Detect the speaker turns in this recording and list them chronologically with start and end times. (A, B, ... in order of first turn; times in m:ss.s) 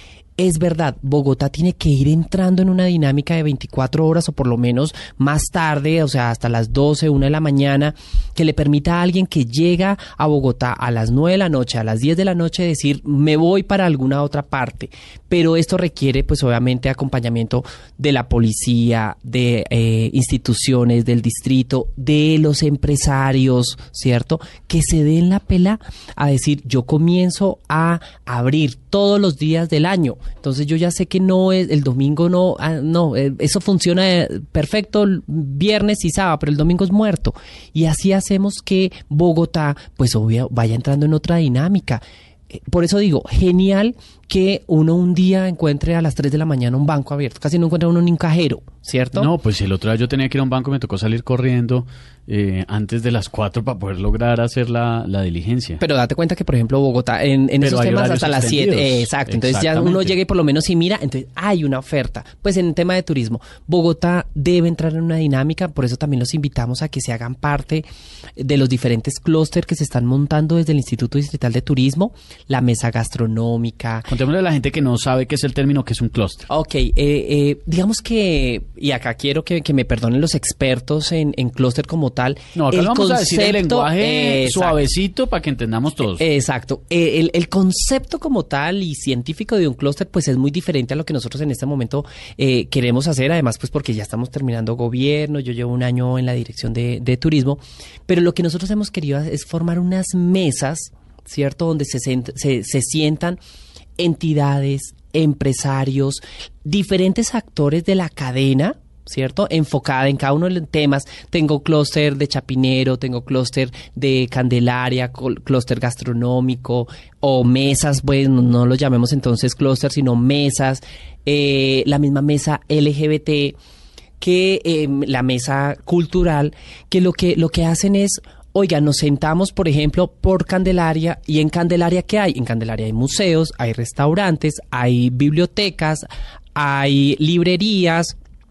0:00.4-0:49.3 A
0:49.2-0:55.8 B
0:55.8-1:07.9 A
0:57.6-1:00.2 B
1:08.4-1:14.1 A
1:14.1-1:16.5 B
1:16.5-1:24.8 A
1:22.6-1:26.2 B
1:26.2-1:43.4 A
1:44.0-2:03.6 A
2:04.2-2:18.2 A